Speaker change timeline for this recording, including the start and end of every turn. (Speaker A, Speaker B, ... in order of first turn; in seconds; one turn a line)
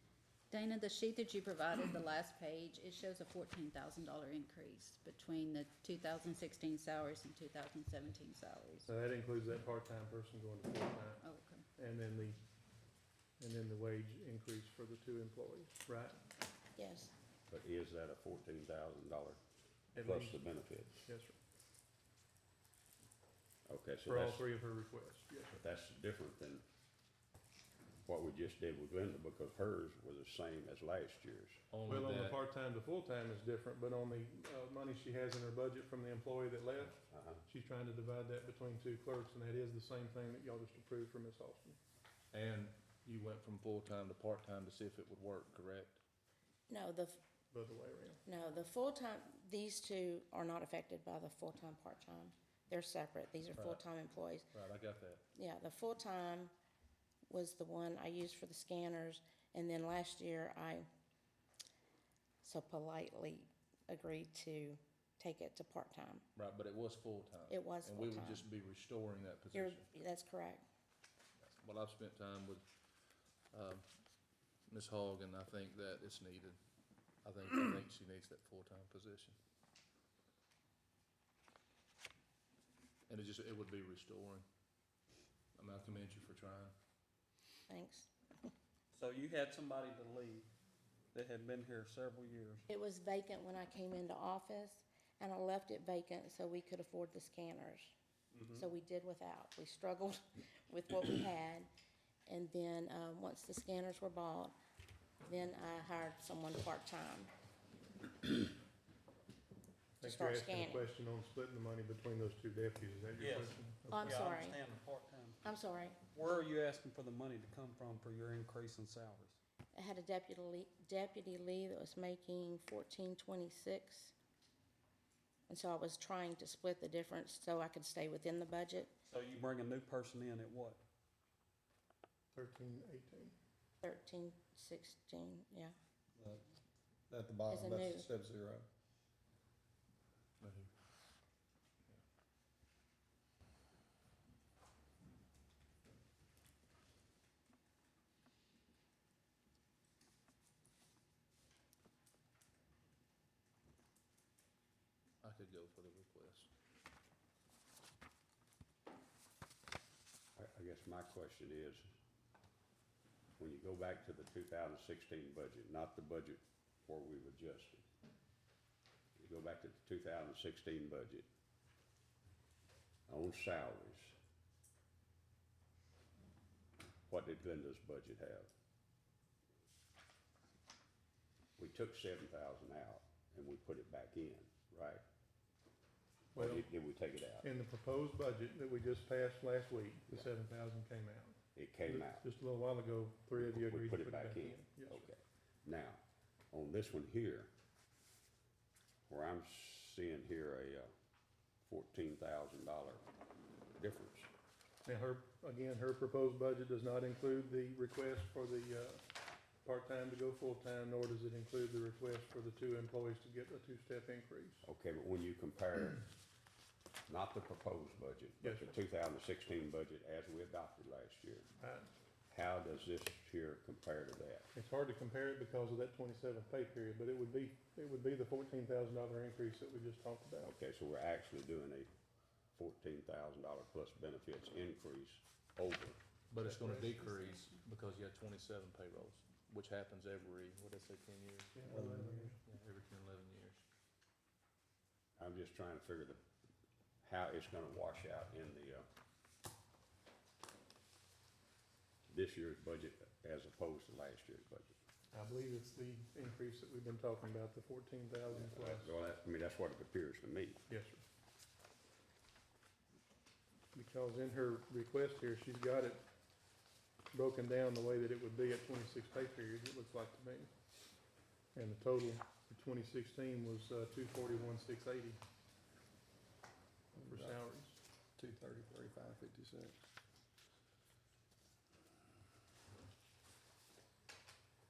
Speaker A: 0.5-8.9
Speaker B: 8.9-11.2
Speaker A: 11.2-11.6
Speaker B: 11.7-12.4
Speaker B: 13.4-16.2
Speaker C: 16.8-17.1
Speaker D: 17.5-19.4
Speaker B: 19.9-20.4
Speaker D: 20.0-21.0
Speaker B: 21.1-21.4
Speaker D: 23.7-24.5
Speaker B: 24.1-25.6
Speaker D: 25.5-26.6
Speaker D: 28.1-31.6
Speaker E: 31.7-32.4
Speaker B: 31.9-41.8
Speaker D: 37.1-37.4
Speaker E: 42.3-46.0
Speaker C: 46.7-47.2
Speaker B: 47.5-48.2
Speaker C: 48.2-54.5
Speaker E: 53.5-53.8
Speaker E: 54.5-55.2
Speaker C: 55.4-56.5
Speaker C: 57.3-60.9
Speaker C: 62.4-66.2
Speaker E: 66.3-69.8
Speaker C: 67.5-68.5
Speaker C: 69.5-70.6
Speaker E: 71.4-72.6
Speaker E: 73.5-73.8
Speaker E: 74.7-76.6
Speaker E: 77.2-79.4
Speaker E: 83.1-84.5
Speaker E: 85.5-86.7
Speaker C: 87.7-88.1
Speaker F: 88.9-90.5
Speaker F: 91.1-92.6
Speaker C: 92.7-97.9
Speaker F: 98.3-98.6
Speaker C: 98.5-101.7
Speaker C: 102.3-104.5
Speaker C: 105.2-107.3
Speaker B: 110.0-114.1
Speaker C: 110.0-110.9
Speaker F: 113.2-115.3
Speaker C: 113.9-114.6
Speaker C: 115.4-116.0
Speaker F: 116.1-119.4
Speaker C: 119.7-124.1
Speaker C: 125.5-128.9
Speaker F: 129.1-130.8
Speaker B: 132.3-133.3
Speaker C: 133.8-135.7
Speaker G: 136.2-136.4
Speaker G: 137.1-138.7
Speaker C: 137.5-138.1
Speaker E: 140.4-140.7
Speaker E: 155.2-156.5
Speaker D: 160.3-161.8
Speaker D: 163.4-167.8
Speaker D: 169.2-171.2
Speaker D: 173.1-174.2
Speaker D: 177.1-178.5
Speaker D: 181.6-185.0
Speaker D: 186.3-187.5
Speaker B: 186.3-186.7
Speaker B: 187.4-195.1
Speaker D: 191.5-192.2
Speaker D: 193.4-196.0
Speaker D: 196.5-197.5
Speaker D: 199.1-200.9
Speaker D: 201.7-203.0
Speaker D: 203.7-204.3
Speaker B: 204.8-209.0
Speaker B: 209.6-214.7
Speaker D: 214.6-216.1
Speaker D: 217.1-221.5
Speaker B: 218.4-218.8
Speaker B: 221.6-221.9
Speaker D: 222.3-224.5
Speaker B: 224.5-230.5
Speaker D: 230.4-231.9
Speaker D: 232.5-236.0
Speaker E: 236.3-241.6
Speaker B: 236.4-237.0
Speaker B: 241.5-242.3
Speaker G: 241.7-242.3
Speaker E: 242.4-243.6
Speaker D: 245.2-246.2
Speaker D: 247.0-248.9
Speaker D: 252.1-254.7
Speaker B: 255.1-258.9
Speaker D: 258.3-260.6
Speaker B: 260.7-261.0
Speaker B: 263.7-266.0
Speaker B: 267.1-270.5
Speaker B: 271.5-275.2
Speaker G: 276.9-277.4
Speaker B: 277.1-277.8
Speaker G: 278.1-279.8